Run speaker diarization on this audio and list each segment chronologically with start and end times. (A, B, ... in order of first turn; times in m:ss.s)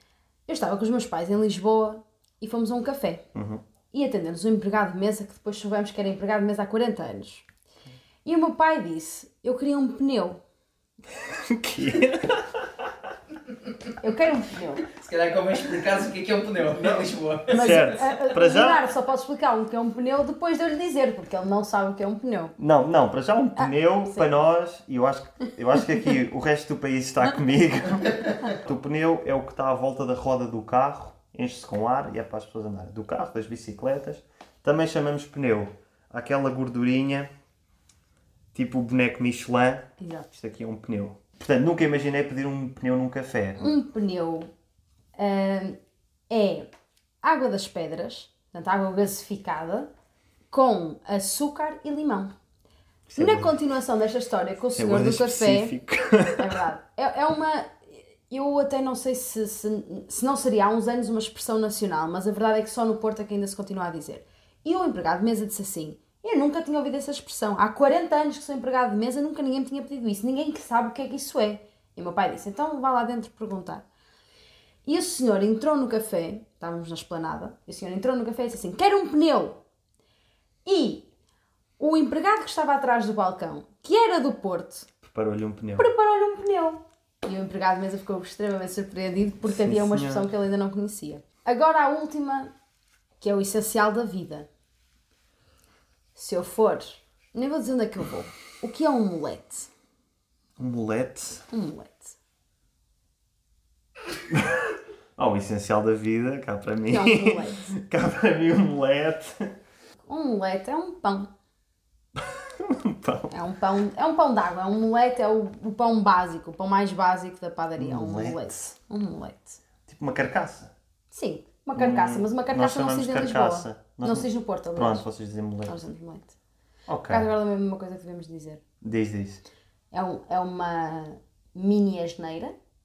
0:00.5-0:03.2 A
0:03.4-0:03.6 B
0:03.9-0:07.5 A
0:08.2-0:10.4 A
0:11.2-0:12.9 B
0:14.0-0:14.9 A
0:14.9-0:17.8 C
0:17.5-0:18.8 B
0:17.5-0:22.6 A
0:22.6-0:37.3 B
0:23.6-0:24.4 A
0:38.5-0:43.7 B
0:40.0-0:40.3 A
0:43.6-0:44.5 A
0:45.2-0:45.8 A
0:46.3-0:46.7 A
0:47.2-0:49.9 A
0:50.5-0:52.3 A
0:53.1-0:53.5 B
0:53.2-0:55.8 A
0:54.8-0:56.6 B
0:56.4-1:13.8 A
1:14.8-1:19.6 A
1:20.7-1:21.1 A
1:21.8-1:24.9 A
1:25.0-1:25.9 B
1:25.8-1:32.5 A
1:29.4-1:30.3 B
1:33.2-1:34.5 A
1:36.2-1:39.7 A
1:40.6-1:41.4 B
1:41.5-1:42.2 A
1:44.3-1:44.6 B
1:45.2-1:49.6 B
1:46.9-1:47.7 A
1:50.1-1:51.3 A
1:52.6-1:53.3 B
1:53.3-1:59.6 A
1:57.8-1:58.6 B
1:59.9-2:00.7 B
2:01.1-2:05.0 A
2:01.8-2:05.8 B
2:05.7-2:06.4 A
2:06.9-2:07.3 B
2:07.1-2:08.6 A
2:08.8-2:09.4 B
2:09.9-2:12.5 A